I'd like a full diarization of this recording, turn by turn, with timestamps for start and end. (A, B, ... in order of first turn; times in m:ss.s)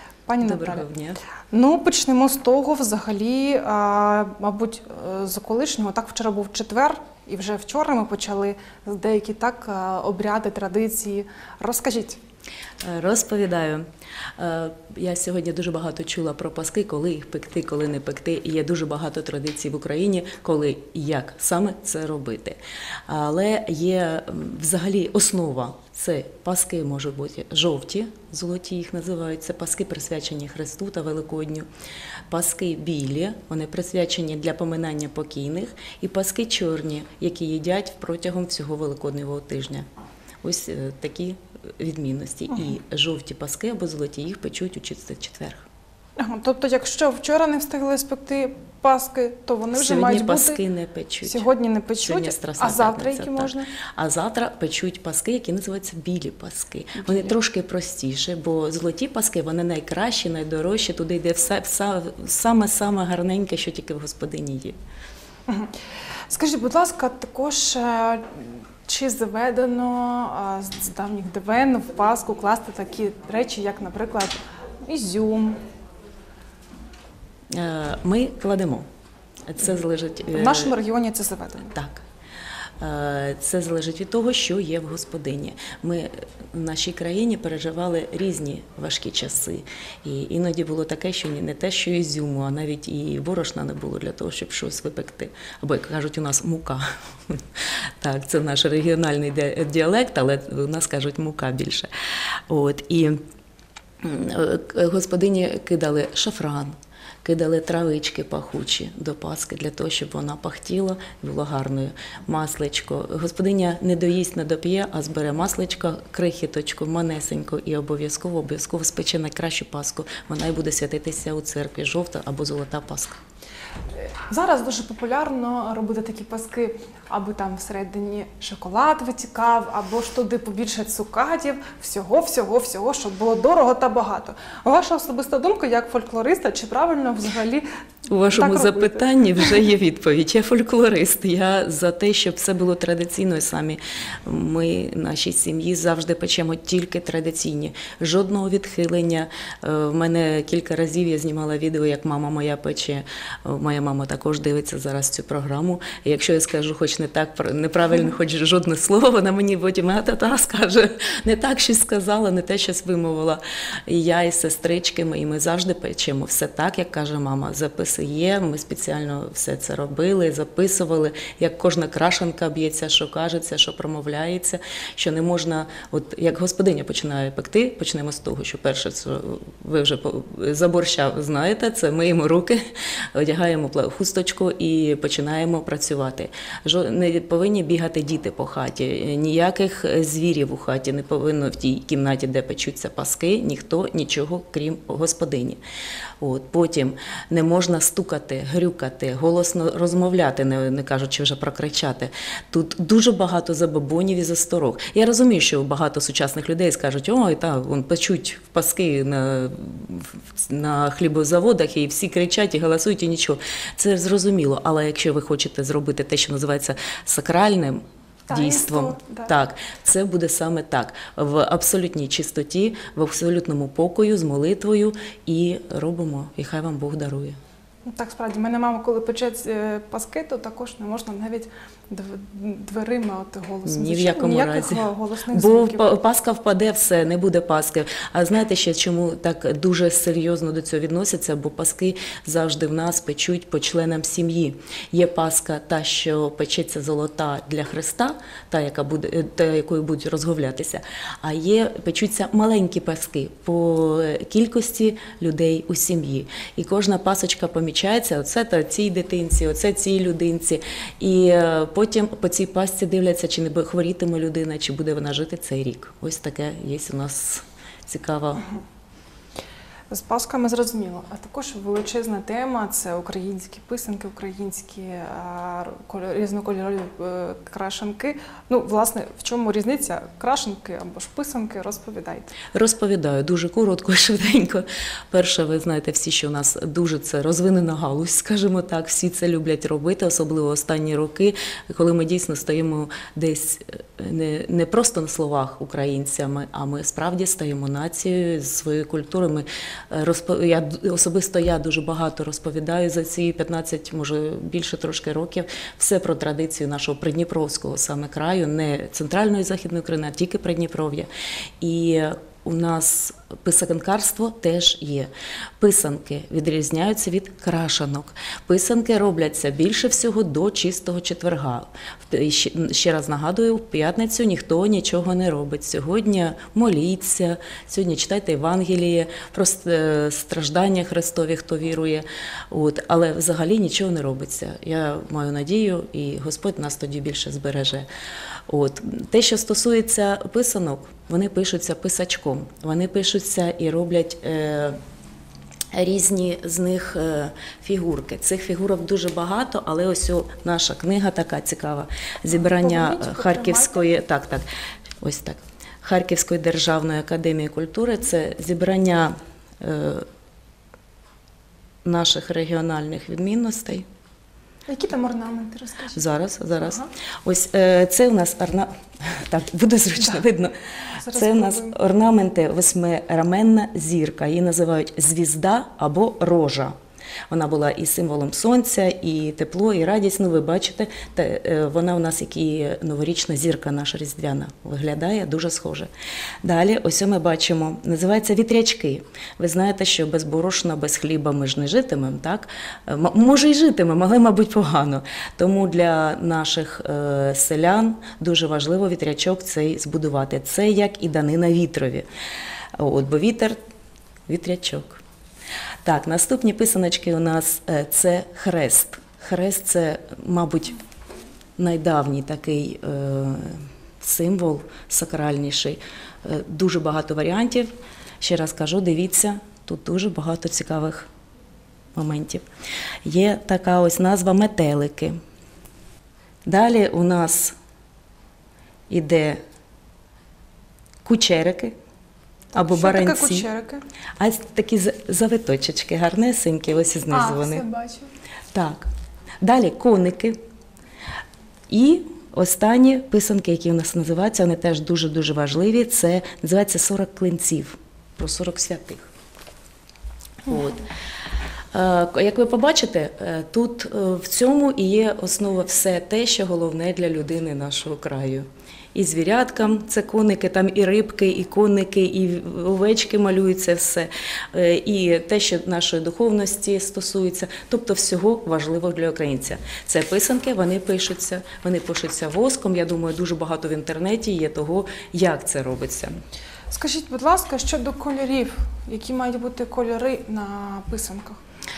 0:00.2-0:00.8 A
0:00.4-0:01.2 B
0:01.5-0:12.2 A
0:12.8-0:13.8 B
0:14.4-0:31.6 B
0:32.3-0:39.9 B
0:40.4-0:45.7 B
0:46.2-0:50.6 A
0:49.7-0:51.4 B
0:51.2-0:53.7 A
0:52.0-1:04.8 B
0:57.0-0:57.3 A
1:05.5-1:05.7 A
1:06.3-1:15.6 A
1:17.5-1:18.9 B
1:19.5-1:20.8 B
1:20.3-1:21.7 A
1:21.7-1:22.0 B
1:22.8-1:37.4 B
1:38.0-1:41.9 B
1:42.5-1:43.2 B
1:44.0-2:03.2 B
2:04.0-2:17.6 A
2:18.1-3:02.6 B
2:18.3-2:19.6 A
3:03.1-3:15.6 B
3:16.2-3:47.4 B
3:38.3-3:39.3 A
3:47.8-3:56.0 A
3:53.6-4:28.4 B
4:29.9-4:42.4 A
4:42.5-5:11.1 B
5:11.6-5:37.9 B
5:38.5-5:44.8 B
5:45.7-5:54.4 B
5:52.6-5:53.9 A
5:55.0-6:00.1 B
6:01.8-6:03.8 B
6:04.7-6:06.0 A
6:05.9-6:16.7 B
6:06.6-6:06.9 A
6:11.0-6:11.8 A
6:17.3-6:25.9 B
6:26.4-6:42.1 B
6:42.8-6:43.6 B
6:44.3-6:45.0 B
6:45.8-6:50.8 B
6:51.6-6:57.7 B
6:58.2-7:01.1 B
7:01.9-7:02.4 B
7:03.0-7:05.2 B
7:06.4-7:07.6 B
7:08.9-7:09.4 B
7:11.0-7:11.7 B
7:12.6-7:13.4 B
7:12.6-7:13.8 A
7:14.2-7:17.6 B
7:17.1-7:18.1 A
7:18.5-7:18.9 B
7:19.4-7:20.3 B
7:21.7-7:29.1 B
7:30.5-7:30.8 B
7:31.7-7:56.1 B
7:56.7-8:01.4 A